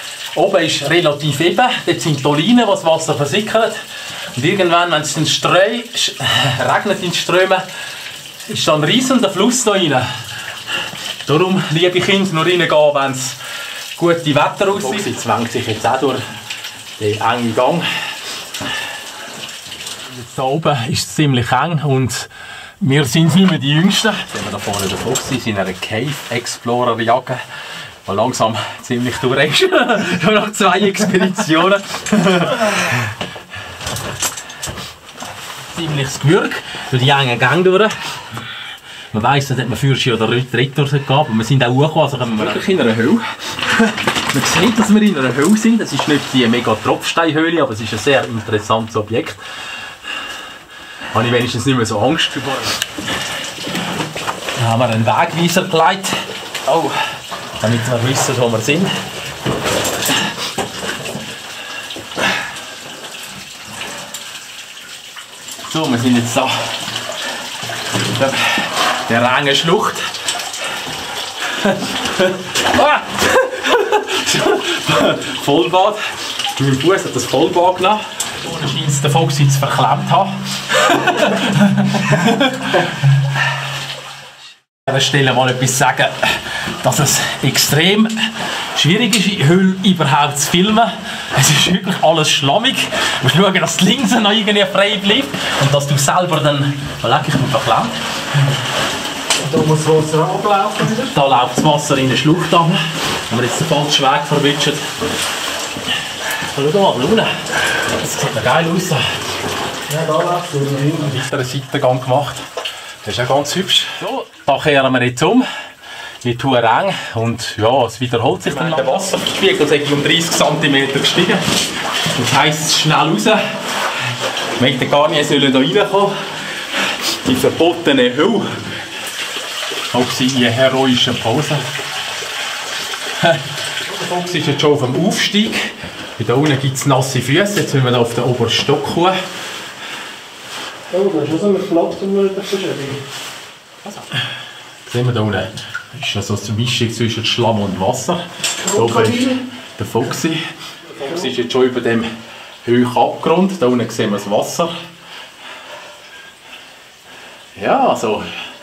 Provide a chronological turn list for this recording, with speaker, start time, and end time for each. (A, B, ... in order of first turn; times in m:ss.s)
0:00.3-0:03.8 A
0:04.3-0:07.6 A
0:08.5-0:10.1 A
0:11.2-0:13.4 A
0:14.0-0:16.2 A
0:17.0-0:17.9 A
0:20.1-0:27.4 A
0:28.0-0:33.1 A
0:35.7-0:38.0 A
0:39.1-0:49.4 A
0:51.1-0:52.8 A
0:54.6-0:57.0 A
0:57.6-0:59.0 A
1:05.6-1:06.7 A
1:08.0-1:10.1 A
1:11.4-1:23.1 A
1:24.8-1:38.0 A
1:39.4-1:41.0 B
1:40.9-1:44.8 A
1:46.5-1:49.1 A
1:49.9-1:51.0 B
1:50.8-1:52.4 A
1:53.0-1:55.5 A
1:56.2-2:01.4 A
2:02.0-2:03.4 A
2:04.6-2:06.2 A
2:06.9-2:08.5 A
2:09.9-2:11.7 A
2:13.2-2:19.2 A
2:20.9-2:23.0 B
2:23.8-2:24.2 A
2:24.8-2:32.1 A
2:28.7-2:29.3 B
2:32.6-2:34.7 A
2:37.6-2:38.3 A